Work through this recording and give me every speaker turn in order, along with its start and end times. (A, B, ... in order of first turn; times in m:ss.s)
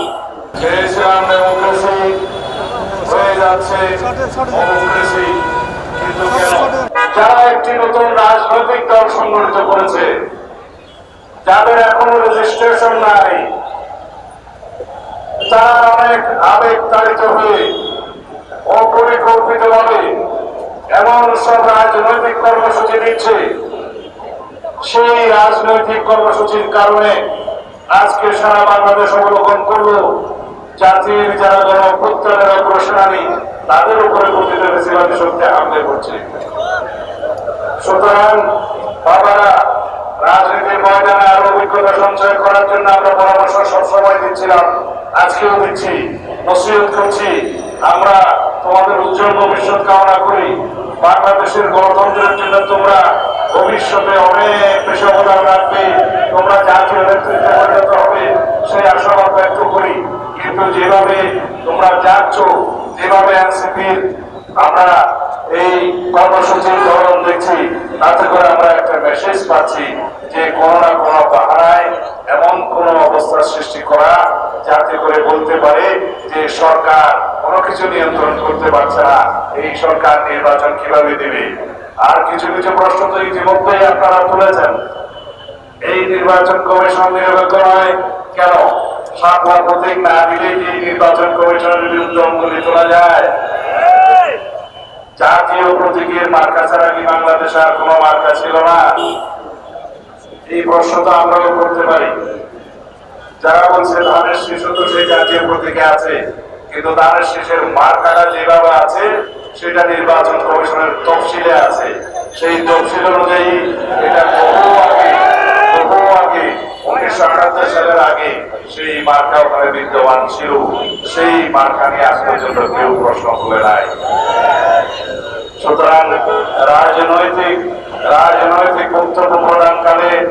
0:00.5-0:02.1 A
0:03.0-0:03.8 A
0:04.4-0:05.3 A
0:06.0-0:10.1 A
0:11.4-0:13.5 A
0:15.5-0:17.7 A
0:18.7-0:20.1 A
0:20.9-0:23.4 A
0:24.8-0:27.2 A
0:27.9-0:30.0 A
0:30.8-0:36.2 A
0:37.8-0:38.4 A
0:39.0-0:39.5 A
0:40.2-0:44.6 A
0:45.2-0:47.3 A
0:47.8-0:53.0 A
0:53.5-1:04.0 A
1:04.6-1:05.0 A
1:05.5-1:21.5 A
1:22.0-1:24.8 A
1:25.8-1:33.3 A
1:35.2-1:38.8 A
1:40.5-1:42.1 A
1:43.4-1:46.2 A
1:46.7-2:03.9 A
2:05.6-2:10.1 A